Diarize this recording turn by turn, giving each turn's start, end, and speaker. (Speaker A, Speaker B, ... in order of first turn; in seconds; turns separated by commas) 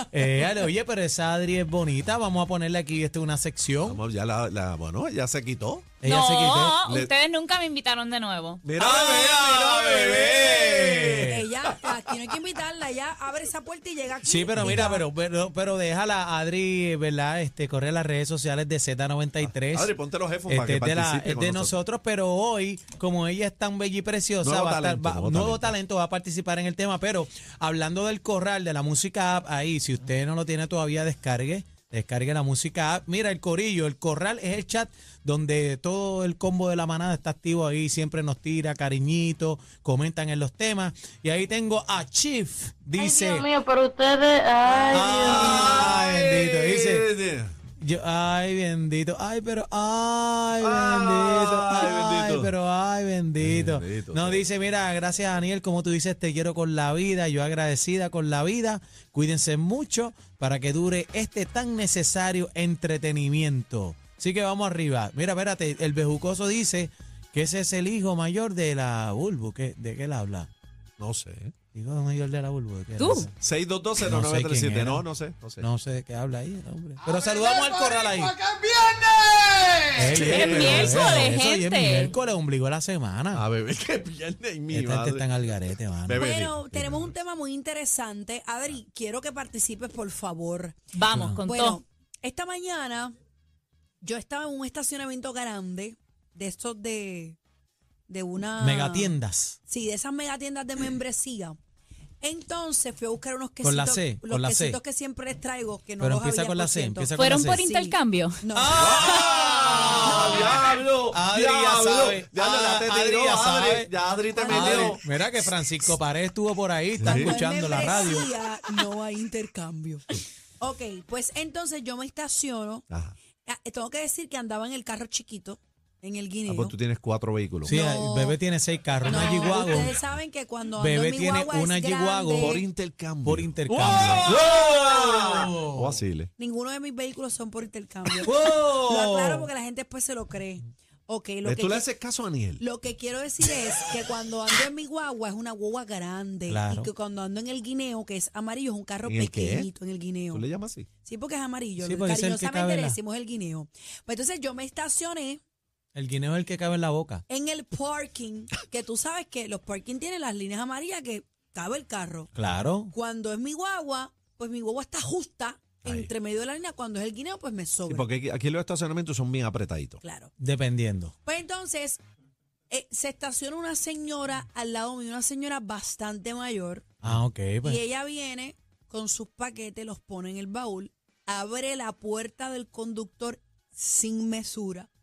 Speaker A: 0.1-4.0, Speaker B: 3.8-6.0, Speaker A: 6.0-6.8, Speaker C: 6.0-8.6, Speaker B: 6.8-7.1, Speaker B: 8.6-12.1, Speaker A: 8.8-11.5, Speaker D: 9.2-10.6, Speaker D: 11.2-15.1, Speaker A: 14.2-19.9, Speaker B: 19.6-21.8, Speaker A: 20.5-43.5, Speaker B: 24.4-25.7, Speaker E: 43.0-45.9, Speaker B: 44.7-47.5, Speaker A: 44.9-47.1, Speaker A: 47.8-70.5, Speaker B: 50.6-52.5, Speaker B: 53.4-54.4, Speaker B: 71.0-71.5, Speaker A: 71.7-73.3, Speaker C: 73.0-73.3, Speaker B: 73.4-75.7, Speaker A: 74.0-75.0, Speaker A: 75.6-78.4, Speaker A: 79.9-83.5, Speaker B: 80.2-81.3, Speaker C: 80.2-82.1, Speaker B: 83.3-85.2, Speaker A: 84.7-86.2, Speaker B: 86.1-87.1, Speaker D: 86.2-90.8, Speaker C: 90.9-91.8, Speaker A: 91.1-91.4, Speaker D: 91.5-93.1, Speaker D: 94.0-97.4, Speaker D: 98.1-99.2, Speaker A: 98.6-99.6, Speaker D: 99.7-101.6, Speaker D: 102.2-108.9, Speaker A: 103.6-104.8, Speaker A: 106.0-107.6, Speaker C: 107.2-108.4, Speaker A: 108.5-113.9, Speaker B: 108.8-115.0, Speaker D: 109.8-110.7, Speaker D: 114.3-115.0, Speaker A: 114.5-118.3, Speaker B: 117.0-117.4, Speaker D: 117.1-122.8, Speaker B: 122.9-123.2, Speaker D: 123.5-126.8, Speaker B: 126.5-127.7, Speaker D: 127.7-128.4, Speaker A: 127.7-129.9, Speaker D: 129.1-132.6, Speaker A: 130.8-132.6, Speaker B: 132.4-136.3, Speaker A: 133.2-136.0, Speaker D: 133.9-134.2, Speaker D: 136.4-141.9, Speaker A: 138.2-139.5, Speaker B: 141.4-142.6, Speaker D: 142.6-150.4, Speaker A: 146.5-146.9, Speaker B: 149.1-149.7, Speaker B: 150.3-150.9, Speaker D: 151.0-155.4, Speaker A: 151.8-153.0, Speaker A: 155.9-157.2, Speaker D: 157.3-162.3, Speaker A: 162.3-162.9, Speaker D: 162.9-168.1, Speaker B: 165.8-166.1, Speaker B: 167.8-170.0, Speaker D: 170.0-170.3, Speaker A: 170.4-171.1, Speaker D: 171.2-172.0, Speaker D: 172.7-176.9, Speaker A: 177.0-177.8, Speaker D: 177.6-184.9